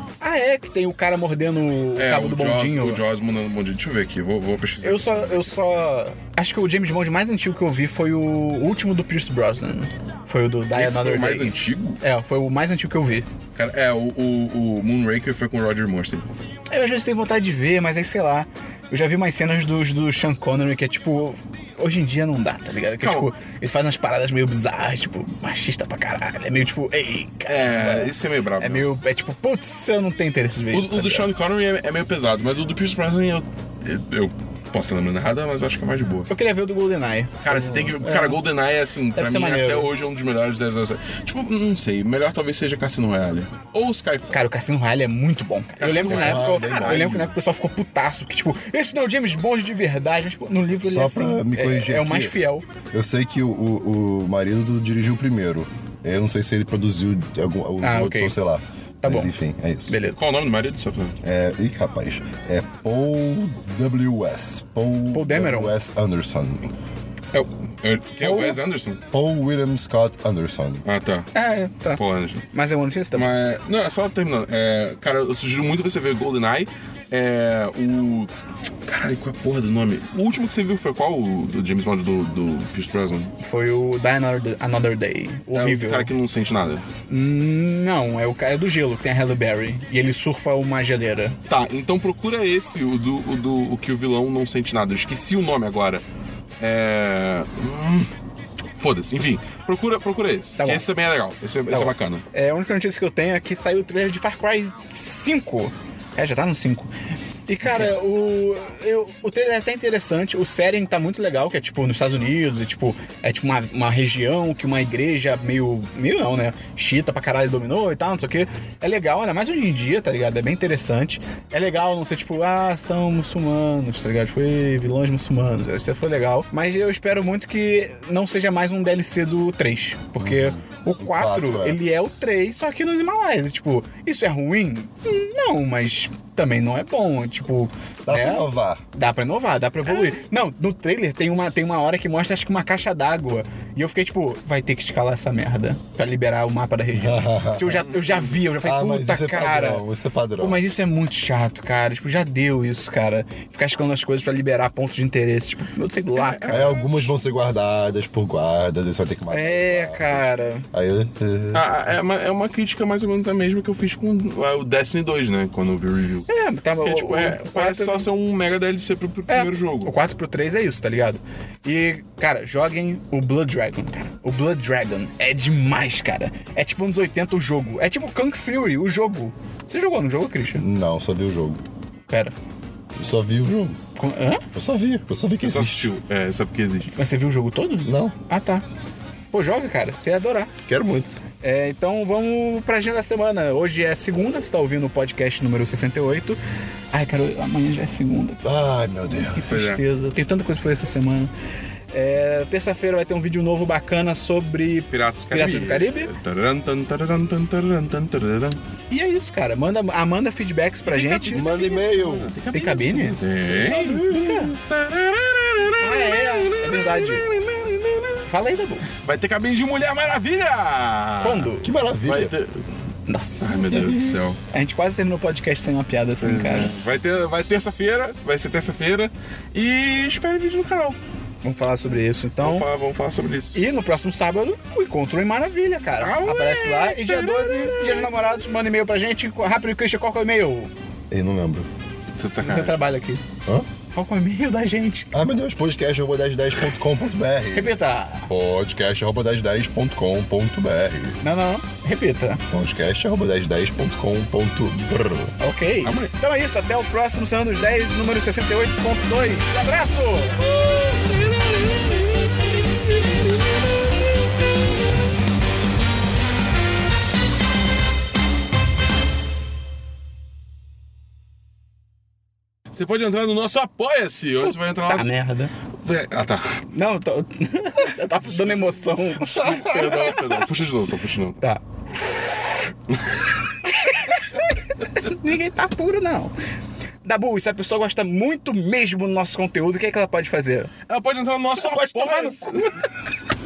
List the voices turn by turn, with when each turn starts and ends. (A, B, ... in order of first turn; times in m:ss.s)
0:00.2-0:03.0 A
0:02.0-0:05.5 B
0:04.8-0:13.2 A
0:10.7-0:12.0 B
0:13.5-0:16.3 B
0:16.7-0:31.3 A
0:23.0-0:23.3 B
0:27.5-0:28.9 B
0:30.7-0:36.3 B
0:36.3-0:38.4 A
0:37.4-0:44.4 B
0:39.1-0:39.9 A
0:44.3-0:52.7 A
0:45.8-0:47.3 B
0:46.0-0:47.1 C
0:50.8-0:52.4 C
0:52.9-0:59.9 C
0:57.8-0:58.4 A
0:59.0-0:59.3 A
0:59.9-1:00.2 A
1:00.1-1:01.2 B
1:01.2-1:06.6 C
1:05.1-1:05.7 A
1:07.3-1:09.0 B
1:08.2-1:08.6 C
1:09.1-1:10.8 C
1:10.8-1:11.3 B
1:11.3-1:12.0 A
1:12.0-1:12.5 B
1:12.5-1:13.3 A
1:13.1-1:18.3 B
1:18.8-1:23.3 B
1:23.4-1:26.1 A
1:25.5-1:26.8 B
1:27.1-1:31.4 A
1:31.5-1:36.0 B
1:36.6-1:38.1 B
1:38.8-1:42.2 B
1:40.6-1:40.9 A
1:41.7-1:46.9 A
1:47.5-2:29.8 A
2:10.2-2:11.8 C
2:18.0-2:18.8 C
2:26.9-2:27.9 C
2:27.9-2:28.4 B
2:28.6-2:30.6 C
2:30.4-2:36.8 A
2:36.2-2:37.1 B
2:36.5-2:41.6 C
2:39.3-2:40.7 A
2:41.5-2:46.3 B
2:46.3-2:48.1 A
2:46.8-2:49.9 B
2:49.3-3:00.6 A
3:00.6-3:01.6 C
3:02.1-3:02.3 A
3:03.0-3:03.8 C
3:04.0-3:04.4 A
3:04.5-3:05.9 C
3:05.4-3:06.9 B
3:06.8-3:08.6 A
3:07.8-3:08.2 C
3:09.3-3:10.5 A
3:10.7-3:11.2 C
3:11.4-3:16.4 A
3:16.9-3:18.4 A
3:18.4-3:19.5 C
3:19.4-3:21.3 A
3:19.5-3:19.8 B
3:21.9-3:26.1 A
3:24.9-3:28.6 B
3:28.9-3:31.6 A
3:30.8-3:38.3 B
3:31.3-3:32.3 C
3:32.5-3:33.2 A
3:33.5-3:34.5 C
3:33.7-3:34.5 A
3:35.8-3:37.2 A
3:38.3-3:38.9 A
3:38.9-3:41.5 B
3:41.2-3:41.7 A
3:41.6-3:42.3 C
3:42.0-3:42.6 B
3:43.1-3:43.9 A
3:43.4-3:44.4 B
3:43.7-3:44.2 C
3:44.5-3:46.7 A
3:46.2-3:51.0 B
3:51.4-3:52.6 A
3:52.4-3:53.7 B
3:53.5-4:00.7 A
3:56.0-3:58.1 B
4:01.1-4:01.7 C
4:02.2-4:02.9 B
4:02.4-4:03.2 A
4:03.9-4:05.1 A
4:05.1-4:11.2 C
4:07.5-4:08.3 A
4:11.2-4:12.4 A
4:12.5-4:15.3 C
4:15.4-4:20.4 A
4:15.8-4:16.1 B
4:20.4-4:23.9 B
4:32.7-4:35.1 B
4:34.9-4:35.5 A
4:35.8-4:36.6 B
4:36.7-4:40.0 A
4:38.3-4:41.4 B
4:39.4-4:40.1 C
4:41.4-4:42.1 A
4:43.6-4:46.3 A
4:47.0-4:50.7 A
4:50.9-4:52.8 B
4:51.6-4:52.7 A